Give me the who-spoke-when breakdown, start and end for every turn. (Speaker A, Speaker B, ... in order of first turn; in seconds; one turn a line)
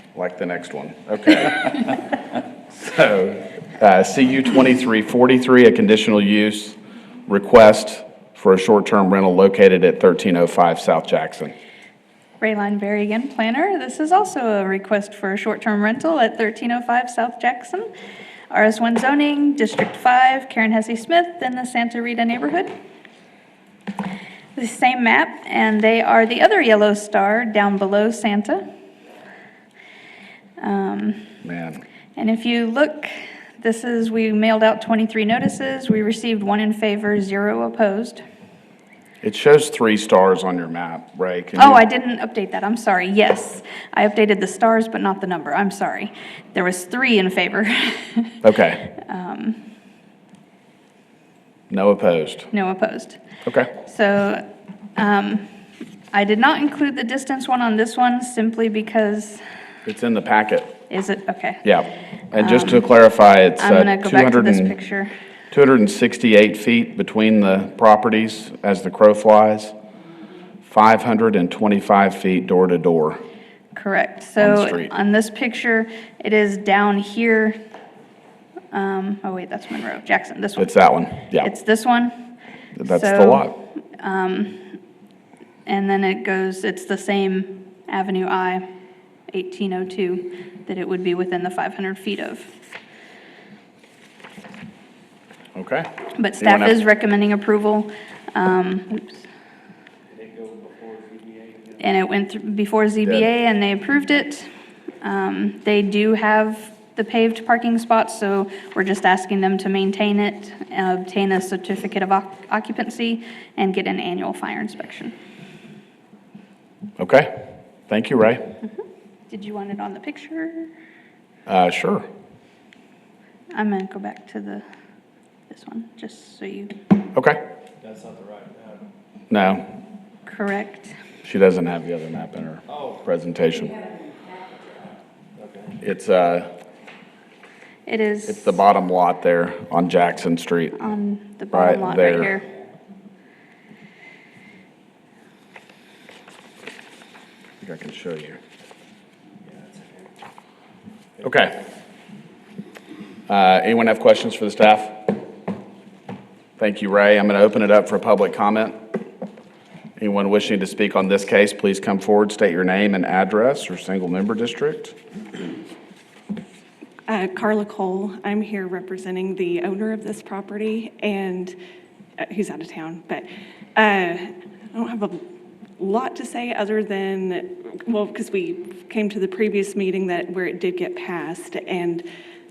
Speaker A: 0.1-2.1
Speaker A: 2.7-6.8
Speaker A: 7.3-11.5
Speaker B: 12.4-17.9
Speaker B: 18.5-22.7
Speaker B: 24.6-28.6
Speaker B: 30.6-31.3
Speaker A: 31.4-31.8
Speaker B: 32.1-38.2
Speaker A: 39.2-41.8
Speaker B: 41.6-48.4
Speaker A: 48.4-48.9
Speaker B: 49.0-49.6
Speaker A: 51.7-52.5
Speaker B: 52.5-53.2
Speaker B: 53.7-55.5
Speaker B: 56.1-59.4
Speaker A: 59.8-60.7
Speaker B: 60.9-61.6
Speaker A: 61.6-64.7
Speaker B: 62.3-62.9
Speaker B: 63.6-65.1
Speaker A: 65.5-69.7
Speaker A: 70.7-73.2
Speaker B: 73.7-77.6
Speaker A: 74.4-74.9
Speaker B: 78.7-80.7
Speaker A: 80.6-81.5
Speaker B: 81.4-82.1
Speaker A: 82.8-83.5
Speaker B: 82.8-84.7
Speaker B: 85.7-88.6
Speaker B: 89.3-92.5
Speaker A: 95.5-96.8
Speaker B: 96.2-99.2
Speaker C: 100.2-101.6
Speaker B: 101.8-104.5
Speaker B: 105.0-115.1
Speaker A: 117.0-118.4
Speaker B: 119.3-120.7
Speaker A: 121.5-122.0
Speaker B: 123.5-124.6
Speaker B: 125.5-126.8
Speaker A: 127.1-127.4
Speaker C: 127.8-128.8
Speaker A: 129.3-129.7
Speaker B: 130.3-130.9
Speaker A: 131.2-133.8
Speaker C: 135.4-135.7
Speaker A: 135.8-136.5
Speaker B: 137.8-138.6
Speaker A: 138.3-140.8
Speaker B: 140.8-142.4
Speaker A: 141.5-142.3
Speaker A: 147.6-148.4
Speaker A: 151.2-151.6
Speaker A: 153.3-155.2
Speaker A: 156.6-158.8
Speaker A: 160.0-164.9
Speaker D: 167.1-171.5
Speaker D: 172.2-175.2
Speaker D: 175.8-182.0